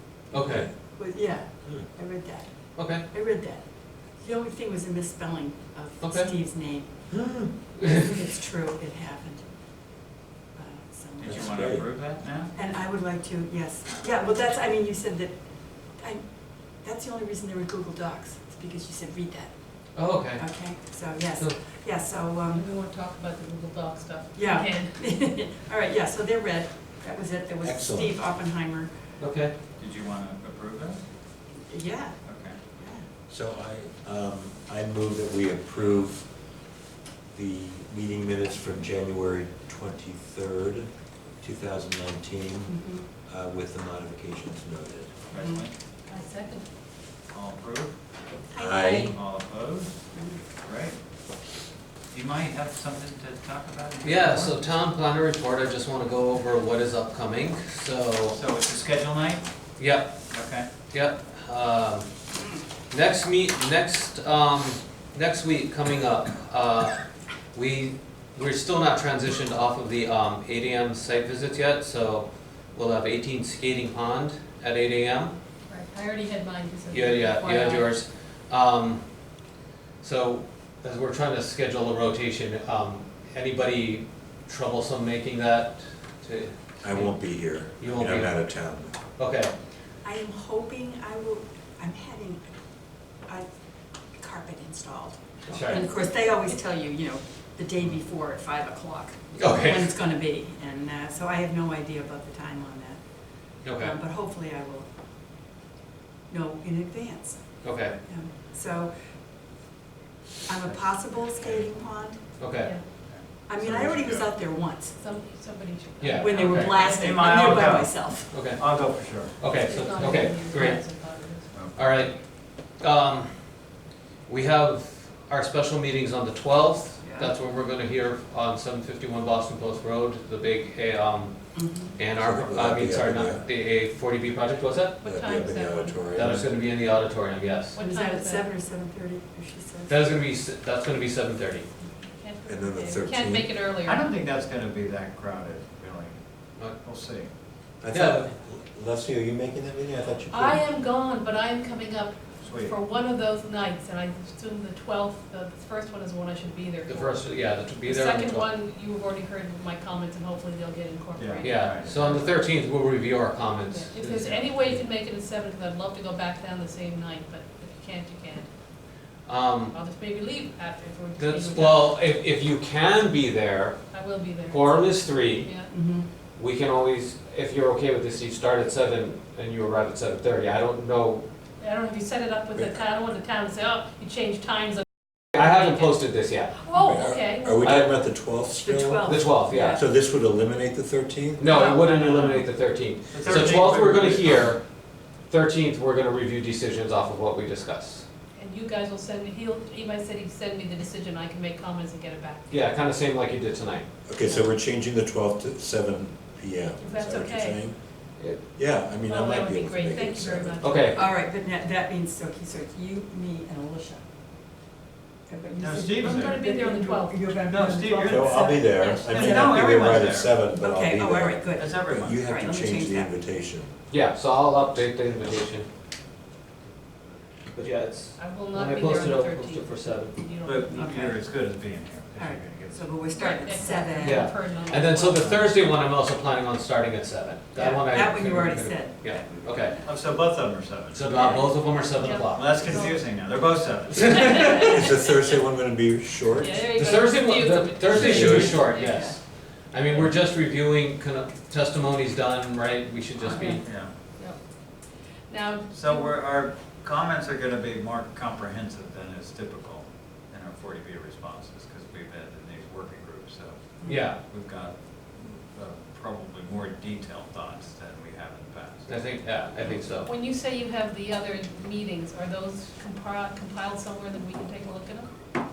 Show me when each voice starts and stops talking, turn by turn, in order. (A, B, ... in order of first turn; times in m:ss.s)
0:00.3-0:00.7 A
0:00.3-0:00.7 B
0:00.7-0:09.9 C
0:02.8-0:03.0 A
0:06.0-0:06.3 A
0:10.5-0:22.6 C
0:11.2-0:12.5 D
0:11.2-0:11.8 B
0:19.9-0:21.6 A
0:22.5-0:25.0 E
0:24.3-0:28.9 C
0:27.6-0:28.2 B
0:29.2-0:29.5 A
0:29.8-0:31.0 D
0:31.7-0:33.0 C
0:32.2-0:32.6 D
0:33.3-0:36.3 B
0:37.3-0:40.9 B
0:41.4-0:45.2 B
0:42.7-0:43.1 C
0:45.3-0:45.7 D
0:45.3-0:45.6 C
0:46.1-0:46.6 E
0:47.3-0:47.9 D
0:48.5-0:49.2 C
0:48.5-0:49.2 B
0:49.1-0:49.9 D
0:50.1-0:50.4 C
0:50.6-0:51.0 D
0:52.1-0:54.8 D
0:54.0-0:58.4 A
0:58.3-0:59.4 D
0:59.8-1:00.1 A
1:00.3-1:00.7 D
1:00.9-1:02.1 A
1:02.9-1:15.3 A
1:15.7-1:17.9 E
1:16.9-1:19.0 A
1:20.0-1:28.5 A
1:26.8-1:29.0 B
1:29.2-1:29.5 A
1:30.0-1:32.5 C
1:34.1-1:44.9 C
1:35.5-1:35.9 A
1:39.3-1:39.9 A
1:43.6-1:43.9 A
1:46.3-1:48.9 C
1:47.6-1:48.0 A
1:50.4-1:52.2 C
1:50.6-1:51.7 D
1:52.4-1:52.7 A
1:53.0-1:54.3 D
1:53.5-1:55.0 C
1:55.0-1:57.0 E
1:56.0-1:56.8 A
1:56.1-1:58.3 C
1:56.8-1:59.5 D
1:58.3-1:58.7 A
1:59.4-2:00.9 A
1:59.6-2:01.5 E
2:01.5-2:01.8 D
2:01.7-2:02.2 A
2:02.7-2:03.3 A
2:04.3-2:15.0 A
2:07.0-2:07.3 C
2:11.5-2:12.0 C
2:12.2-2:13.4 B
2:15.0-2:16.2 E
2:15.0-2:16.5 B
2:16.1-2:17.8 A
2:17.7-2:18.5 E
2:17.8-2:20.1 C
2:19.9-2:21.6 A
2:22.1-2:24.1 E
2:22.4-2:23.5 B
2:23.8-2:27.3 D
2:27.8-2:30.6 B
2:27.9-2:28.3 A
2:30.3-2:37.2 E
2:32.4-2:32.8 D
2:36.9-2:38.4 A
2:37.8-2:42.3 E
2:41.2-2:42.0 D
2:41.4-2:44.8 A
2:43.7-2:48.5 E
2:49.2-2:49.7 A
2:49.7-2:51.9 E
2:51.2-2:55.5 A
2:53.9-2:55.7 E
2:55.7-2:56.1 C
2:56.4-3:01.2 A
3:01.6-3:04.8 E
3:05.3-3:06.7 A
3:05.4-3:05.8 E
3:06.6-3:07.5 E
3:06.7-3:11.5 B
3:07.6-3:08.0 A
3:08.6-3:09.8 C
3:09.0-3:09.8 A
3:11.4-3:14.6 A
3:11.8-3:12.5 D
3:13.1-3:14.6 D
3:15.3-3:18.0 A
3:18.4-3:22.5 E
3:22.5-3:23.9 A
3:24.0-3:27.8 B
3:26.8-3:27.6 E
3:28.5-3:30.8 B
3:29.0-3:30.9 E
3:30.6-3:31.0 A
3:30.9-3:34.0 C
3:35.3-3:43.2 C
3:35.6-3:36.4 D
3:36.0-3:37.4 E
3:37.4-3:38.3 D
3:38.1-3:43.7 B
3:39.1-3:40.3 D
3:41.6-3:42.2 D
3:43.9-3:45.7 A
3:47.5-3:50.2 A
3:48.2-3:51.1 E
3:50.4-3:53.7 D
3:50.8-3:51.1 C
3:52.2-3:54.3 C
3:53.1-3:55.2 E
3:54.0-3:59.8 A
3:55.1-3:55.5 D
3:57.6-3:59.9 C
3:59.8-4:01.3 D
4:00.9-4:02.6 A
4:01.1-4:01.5 C
4:02.0-4:03.1 E
4:02.2-4:04.6 D
4:03.9-4:04.8 A
4:04.2-4:04.6 E
4:04.3-4:06.7 B
4:06.4-4:08.9 E
4:06.7-4:13.7 A
4:07.9-4:08.7 B
4:08.3-4:09.2 C
4:13.3-4:14.4 E
4:13.6-4:13.9 D
4:15.3-4:16.2 E
4:15.7-4:29.0 D
4:23.8-4:24.1 C
4:23.8-4:24.2 A
4:28.9-4:30.1 A
4:30.0-4:35.1 E